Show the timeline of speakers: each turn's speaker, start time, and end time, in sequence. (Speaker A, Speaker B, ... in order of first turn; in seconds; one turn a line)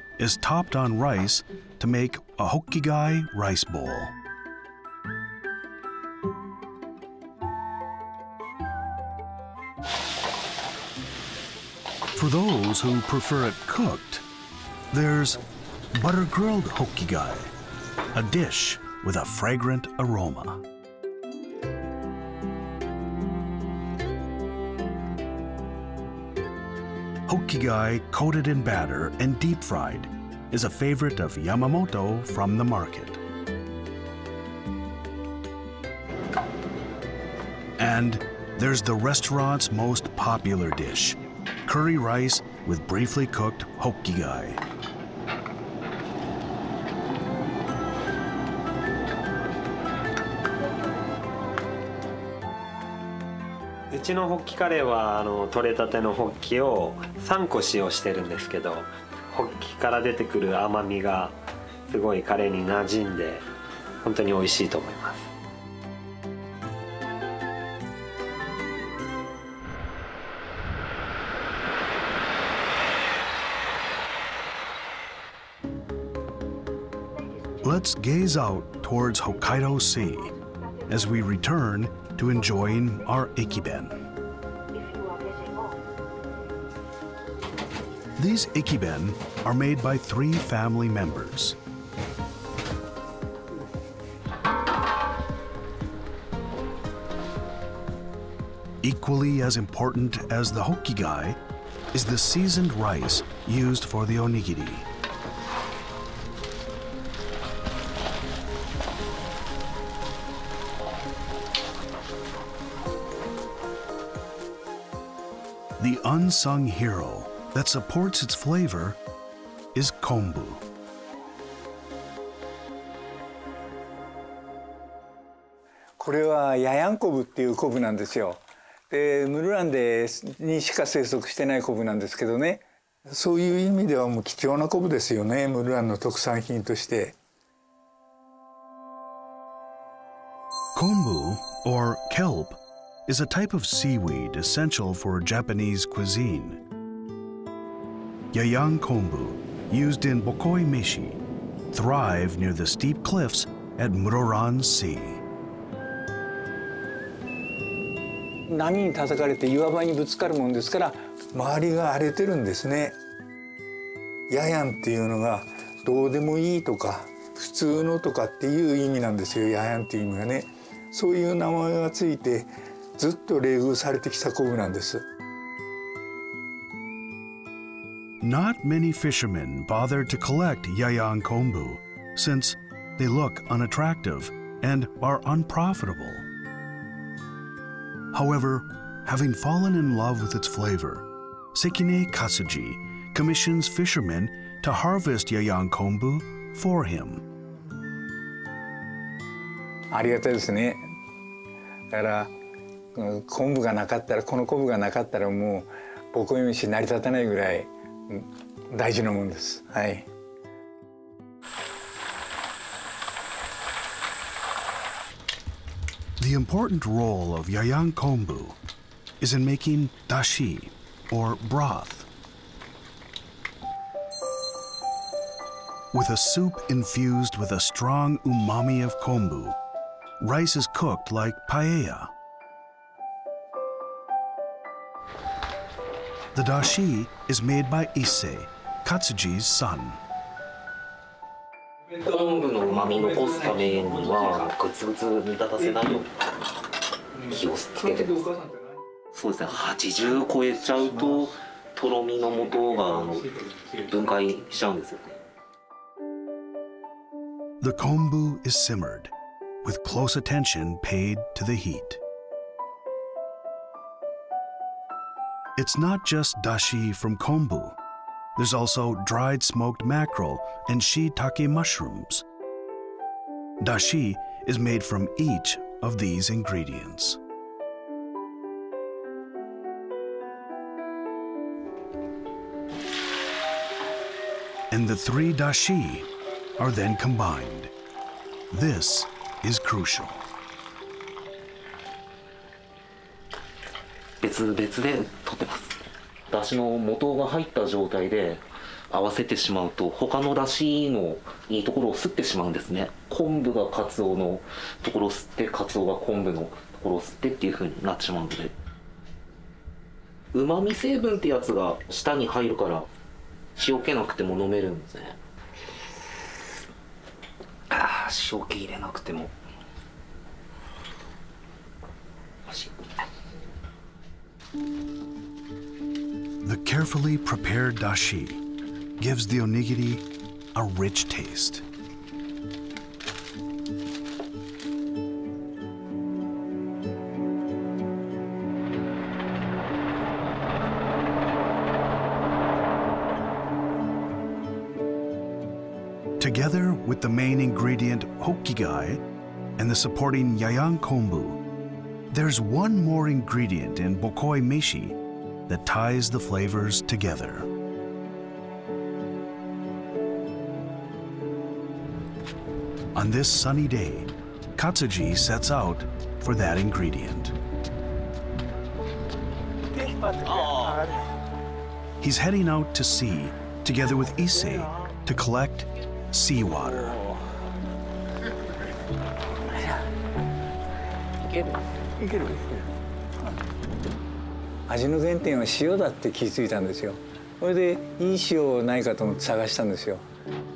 Speaker A: 0.2-4.1
Speaker A: 12.1-14.2
Speaker A: 14.9-15.4
Speaker A: 15.9-17.5
Speaker A: 18.1-20.6
Speaker A: 27.3-33.2
Speaker A: 37.8-44.6
Speaker B: 53.9-63.5
Speaker B: 64.0-65.3
Speaker A: 77.6-80.3
Speaker A: 80.9-84.0
Speaker A: 88.2-91.6
Speaker A: 98.8-101.4
Speaker A: 101.9-104.9
Speaker A: 115.8-119.0
Speaker A: 119.7-120.6
Speaker C: 126.0-137.1
Speaker A: 140.8-146.6
Speaker A: 148.3-151.2
Speaker A: 151.7-155.2
Speaker C: 158.5-162.9
Speaker C: 164.3-175.0
Speaker A: 178.2-186.2
Speaker A: 188.1-197.2
Speaker C: 199.9-200.9
Speaker C: 201.9-202.3
Speaker C: 203.0-210.1
Speaker A: 216.2-218.6
Speaker A: 219.2-222.1
Speaker A: 225.9-229.6
Speaker A: 230.2-232.1
Speaker A: 236.3-240.0
Speaker D: 242.0-246.1
Speaker D: 247.2-248.3
Speaker D: 249.1-255.2
Speaker A: 257.6-259.1
Speaker A: 259.6-262.0
Speaker A: 265.6-267.8
Speaker A: 268.4-272.2
Speaker A: 273.6-277.2
Speaker A: 284.7-287.7
Speaker A: 288.5-290.2
Speaker D: 294.2-295.8
Speaker D: 296.3-308.5
Speaker D: 310.3-312.9
Speaker D: 313.6-315.2
Speaker D: 317.7-319.3
Speaker A: 326.4-328.4
Speaker A: 329.0-331.6
Speaker A: 346.2-349.0
Speaker A: 349.6-351.4
Speaker A: 352.1-357.5
Speaker A: 362.9-367.3
Speaker C: 369.9-370.6
Speaker A: 372.0-377.0
Speaker C: 384.7-390.0